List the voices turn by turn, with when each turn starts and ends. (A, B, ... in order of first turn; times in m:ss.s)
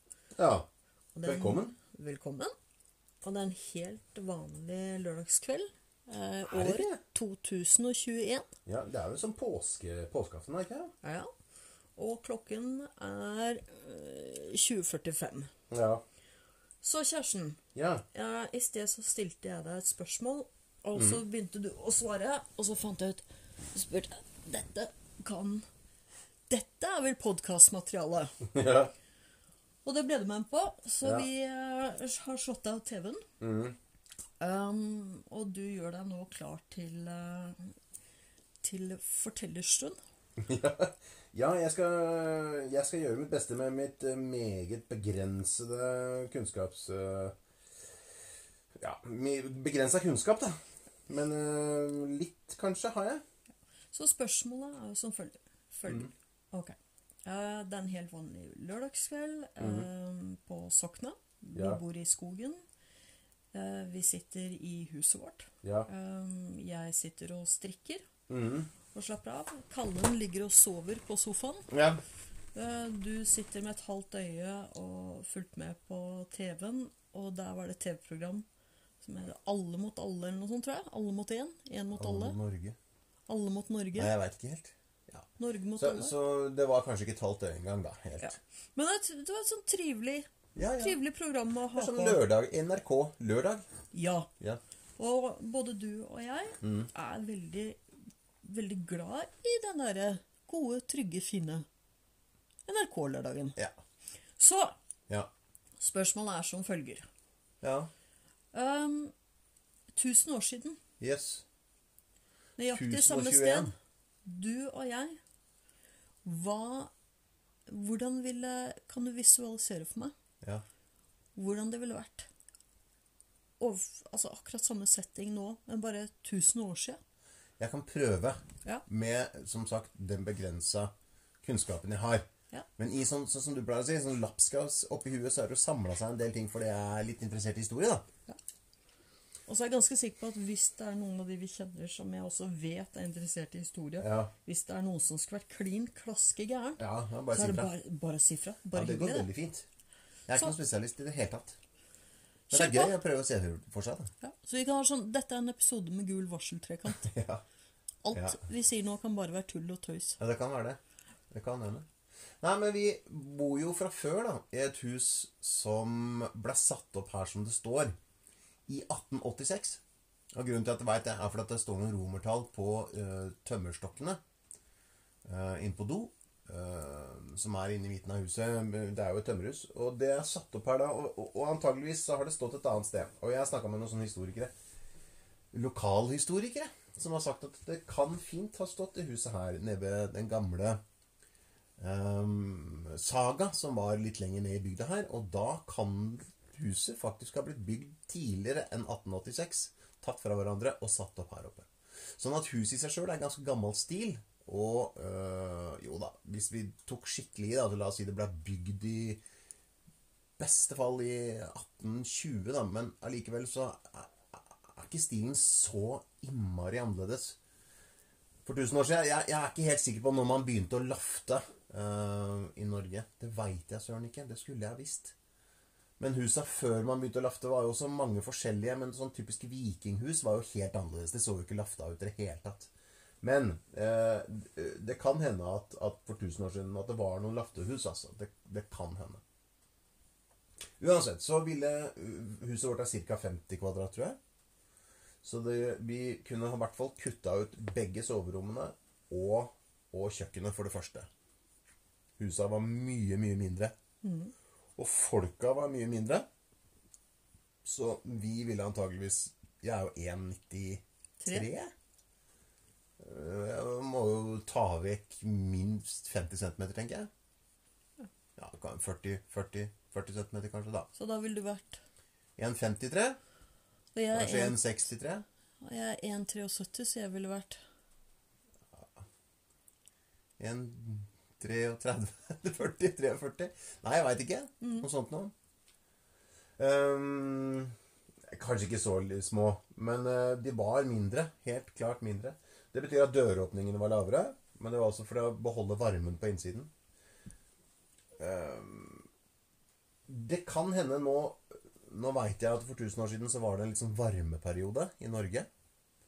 0:00.4-0:00.7 A
0:01.2-0:02.5 B
0:01.3-0:01.7 A
0:03.2-0:08.5 B
0:06.5-0:07.0 A
0:08.7-0:10.9 A
0:11.0-0:11.3 B
0:12.0-0:15.5 B
0:15.7-0:16.0 A
0:16.8-0:17.6 B
0:17.8-0:18.0 A
0:18.1-0:25.7 B
0:21.0-0:21.2 A
0:26.5-0:28.5 B
0:28.5-0:28.9 A
0:29.8-0:33.2 B
0:33.4-0:33.8 A
0:34.4-0:37.7 B
0:38.6-0:40.0 B
0:40.4-0:47.4 A
0:48.8-0:53.2 A
0:53.9-1:02.6 B
0:59.6-0:59.9 A
1:01.6-1:01.8 A
1:03.5-1:08.1 B
1:05.6-1:05.9 A
1:08.3-1:08.7 A
1:08.9-1:11.7 B
1:11.7-1:12.0 A
1:12.6-1:18.5 B
1:19.0-1:22.4 B
1:21.9-1:22.8 A
1:23.3-1:24.1 B
1:24.0-1:28.4 A
1:25.4-1:26.1 B
1:28.2-1:32.2 B
1:30.6-1:31.0 A
1:31.7-1:33.6 A
1:33.9-1:34.3 B
1:35.0-1:37.8 B
1:36.6-1:36.9 A
1:38.4-1:41.7 B
1:42.7-1:43.6 B
1:44.4-1:44.8 B
1:45.8-1:47.1 B
1:47.6-1:47.9 A
1:48.5-1:49.1 B
1:49.9-1:50.8 B
1:51.0-1:51.4 A
1:52.6-1:53.7 B
1:52.7-1:53.7 A
1:54.2-1:55.2 B
1:56.2-1:56.9 B
1:57.7-2:00.1 B
2:01.4-2:02.3 B
2:03.6-2:07.0 B
2:07.6-2:10.9 A
2:11.4-2:12.3 A
2:12.8-2:18.1 A
2:19.5-2:29.3 B
2:24.0-2:24.3 A
2:26.8-2:27.7 A
2:28.7-2:29.6 A
2:30.3-2:31.6 A
2:32.5-2:33.0 B
2:32.5-2:34.1 A
2:34.2-2:37.1 B
2:36.9-2:37.4 A
2:38.0-2:40.2 B
2:38.1-2:38.4 A
2:40.2-2:40.8 A
2:41.3-2:41.9 A
2:42.4-2:48.0 A
2:48.7-2:49.8 A
2:50.3-2:54.2 A
2:55.2-3:04.5 A
3:05.5-3:10.8 A
3:11.8-3:29.2 A
3:30.4-3:37.4 A
3:38.4-3:45.2 A
3:46.0-3:59.2 A
4:00.8-4:04.2 A
4:05.2-4:11.1 A
4:12.2-4:13.7 A
4:14.0-4:14.3 B
4:14.8-4:16.3 A
4:17.6-4:21.7 A
4:21.2-4:21.5 B
4:23.0-4:27.1 A
4:28.4-4:30.9 A
4:31.0-4:31.8 B
4:32.4-4:33.2 A
4:34.0-4:34.6 B
4:34.1-4:35.2 A
4:35.6-4:37.6 B
4:38.7-4:39.0 A
4:40.4-4:45.3 A
4:44.6-4:44.9 B
4:46.6-4:47.7 A
4:48.3-4:56.7 A
4:58.2-4:59.1 A
5:00.1-5:05.5 A